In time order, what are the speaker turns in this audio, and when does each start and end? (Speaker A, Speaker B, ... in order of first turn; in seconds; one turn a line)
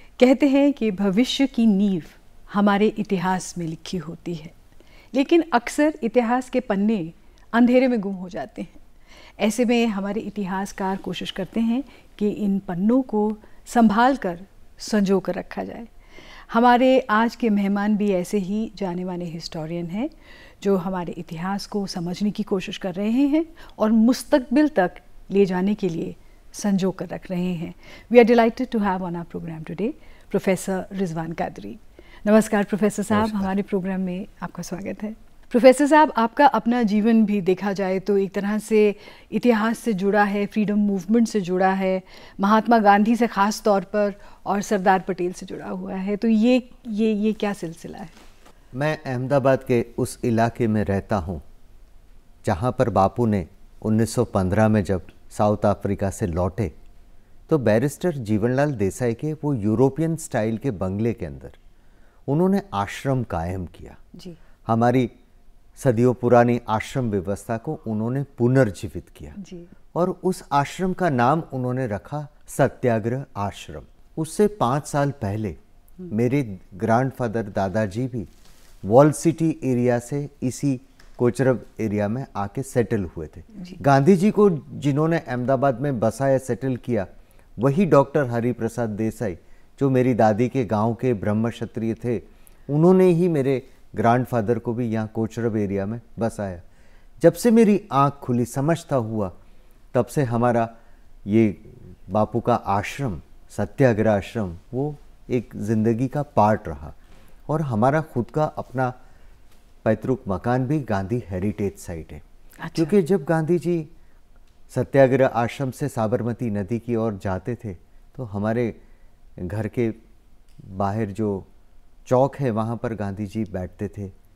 Speaker A: 0.2-4.5
Speaker A: 5.1-8.8
Speaker A: 9.4-15.9
Speaker A: 16.5-48.2
Speaker B: 33.1-33.5
Speaker B: 48.7-51.4
Speaker B: 52.4-56.7
Speaker B: 57.5-61.6
Speaker B: 62.3-64.0
Speaker B: 64.6-65.1
Speaker B: 65.8-69.4
Speaker A: 69.4-69.7
Speaker B: 69.9-75.6
Speaker B: 76.1-78.3
Speaker B: 78.8-96.6
Speaker B: 97.2-99.3
Speaker B: 99.9-100.7
Speaker B: 101.3-107.0
Speaker B: 107.5-108.9
Speaker B: 109.8-112.2
Speaker A: 112.6-112.9
Speaker B: 112.7-113.9
Speaker B: 114.7-118.8
Speaker B: 119.4-120.0
Speaker B: 120.6-121.5
Speaker B: 122.0-124.1